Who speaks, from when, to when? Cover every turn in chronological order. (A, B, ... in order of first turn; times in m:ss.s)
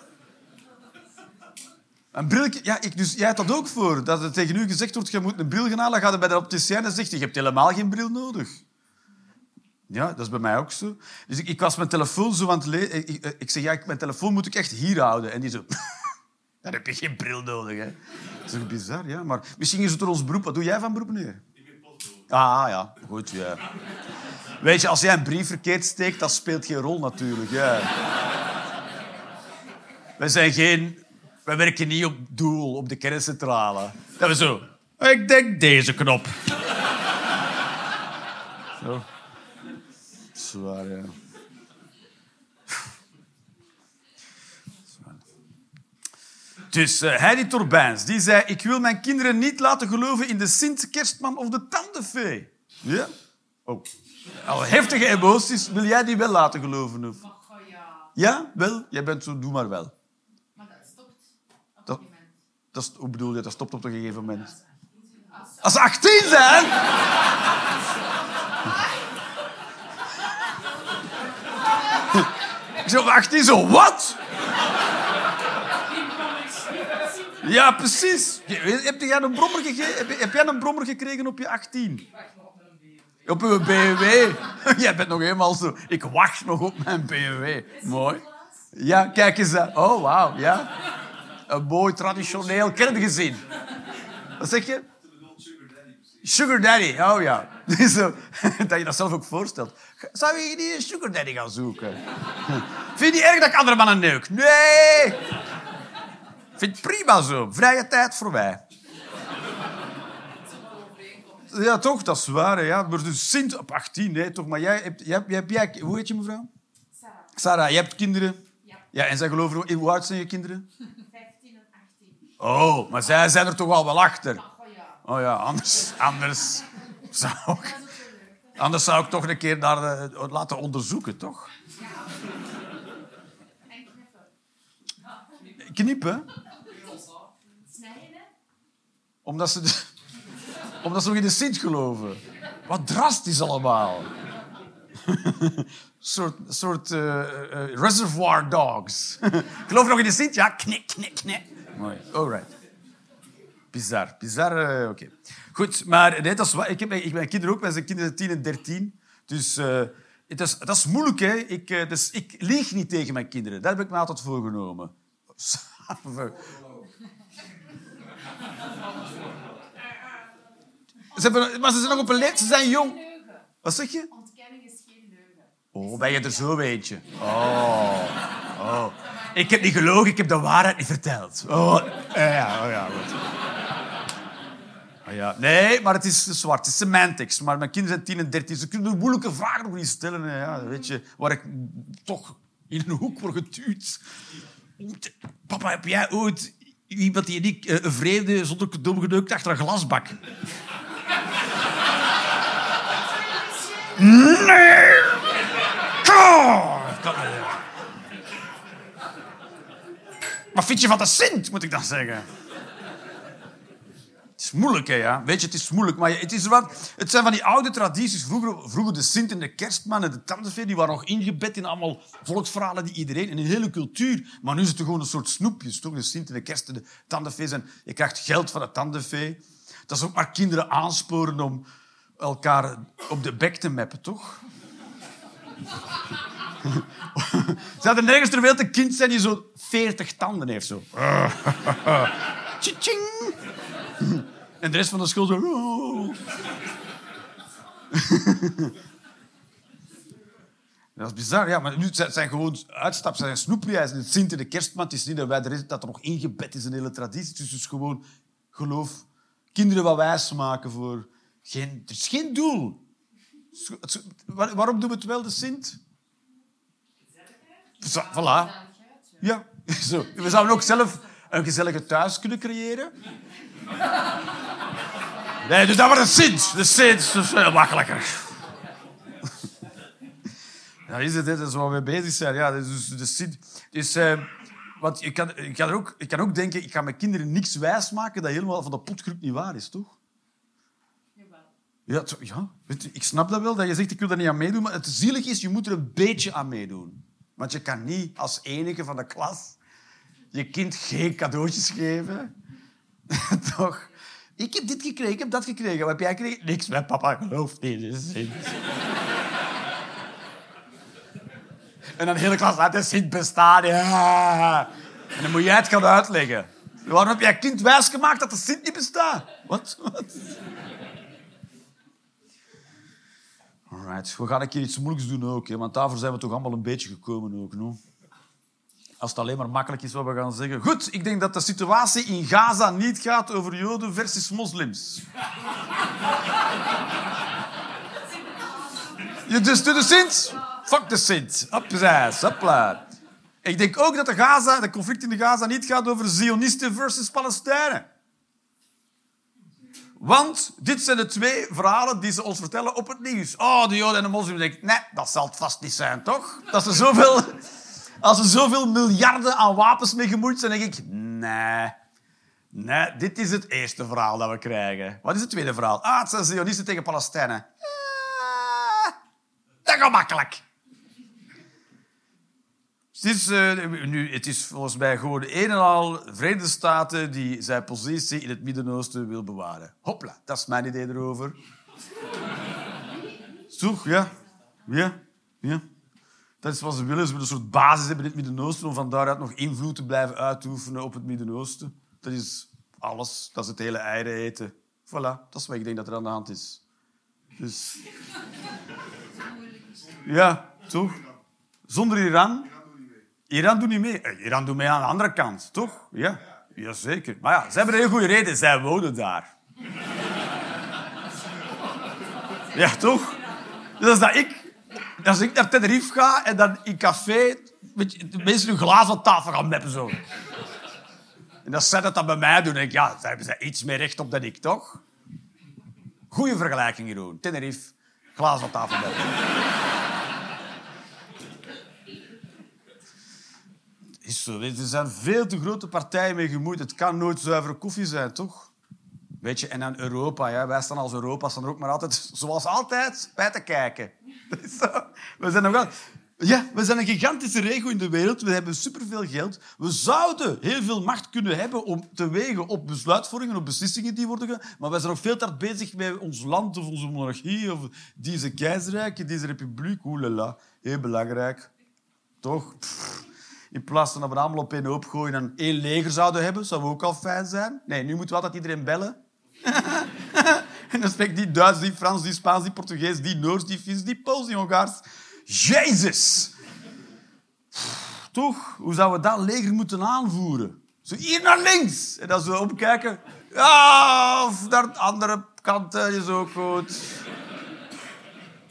0:02.1-0:08.6 A
0:09.9-0:15.8 A
0:16.6-0:21.4 A
0:22.3-0:23.6 A
0:24.6-0:27.9 A
0:30.2-0:36.4 A
0:38.8-0:39.1 A
0:40.4-0:41.1 A
0:45.0-0:45.2 A
0:46.7-0:53.1 A
0:54.4-0:57.2 A
0:57.2-0:58.1 B
0:58.2-0:59.9 A
1:00.5-1:01.2 B
1:01.8-1:02.4 B
1:02.7-1:04.5 A
1:04.7-1:05.8 B
1:05.6-1:06.8 A
1:12.8-1:14.2 A
1:16.3-1:17.1 B
1:17.4-1:22.1 A
1:22.1-1:23.0 B
1:23.3-1:30.7 A
1:27.7-1:28.6 B
1:31.5-1:33.4 A
1:34.4-1:34.9 A
1:36.2-1:45.2 A
1:46.6-1:48.6 A
1:50.4-1:51.6 B
1:51.5-1:56.5 A
1:56.9-1:57.3 B
1:57.4-2:00.6 A
2:00.9-2:02.3 B
2:02.4-2:04.4 A
2:04.3-2:05.0 B
2:05.0-2:07.8 A
2:07.5-2:08.6 B
2:08.6-2:11.5 A
2:13.7-2:14.3 B
2:15.6-2:16.3 A
2:16.6-2:18.3 B
2:19.2-2:19.9 A
2:20.8-2:24.1 A
2:25.0-2:32.5 A
2:33.7-2:46.5 A
2:51.1-2:53.0 A
2:51.5-2:53.5 B
2:53.6-2:54.1 A
2:54.1-2:56.5 B
2:55.7-3:03.3 A
2:59.1-2:59.4 B
3:05.0-3:14.0 A
3:14.8-3:20.2 A
3:23.6-3:23.9 B
3:24.0-3:25.2 A
3:26.0-3:27.6 A
3:30.5-3:32.3 A
3:34.4-3:51.6 A
3:52.2-3:54.4 A
3:56.6-4:03.4 A
4:04.0-4:06.2 A
4:07.9-4:08.7 A
4:11.0-4:22.8 A
4:23.5-4:25.8 A
4:27.1-4:29.2 B
4:27.8-4:28.5 A
4:29.2-4:32.9 A
4:35.4-4:38.3 A
4:40.9-4:44.3 A
4:44.8-4:50.0 A
4:51.2-4:51.5 B
4:51.9-4:59.6 A
5:00.3-5:02.3 A
5:03.1-5:08.6 A
5:12.0-5:20.2 A
5:23.7-5:27.8 A
5:29.0-5:35.0 A
5:38.4-5:39.2 B
5:39.3-5:42.9 A
5:43.4-5:47.9 A
5:50.0-5:57.5 A
5:58.0-6:01.8 A
6:02.5-6:08.9 A
6:09.6-6:10.4 A
6:12.9-6:21.4 A
6:23.5-6:24.1 A
6:24.6-6:25.6 A
6:26.4-6:36.6 A
6:37.4-6:37.8 A
6:39.2-6:40.0 B
6:40.0-6:41.0 A
6:41.7-6:42.5 A
6:43.3-6:49.3 A
6:52.5-6:53.2 A
6:53.8-7:00.0 A
7:01.4-7:04.8 A
7:06.1-7:09.2 A
7:14.0-7:18.5 A
7:19.2-7:41.5 A
7:42.2-7:56.3 A
7:57.6-8:07.0 A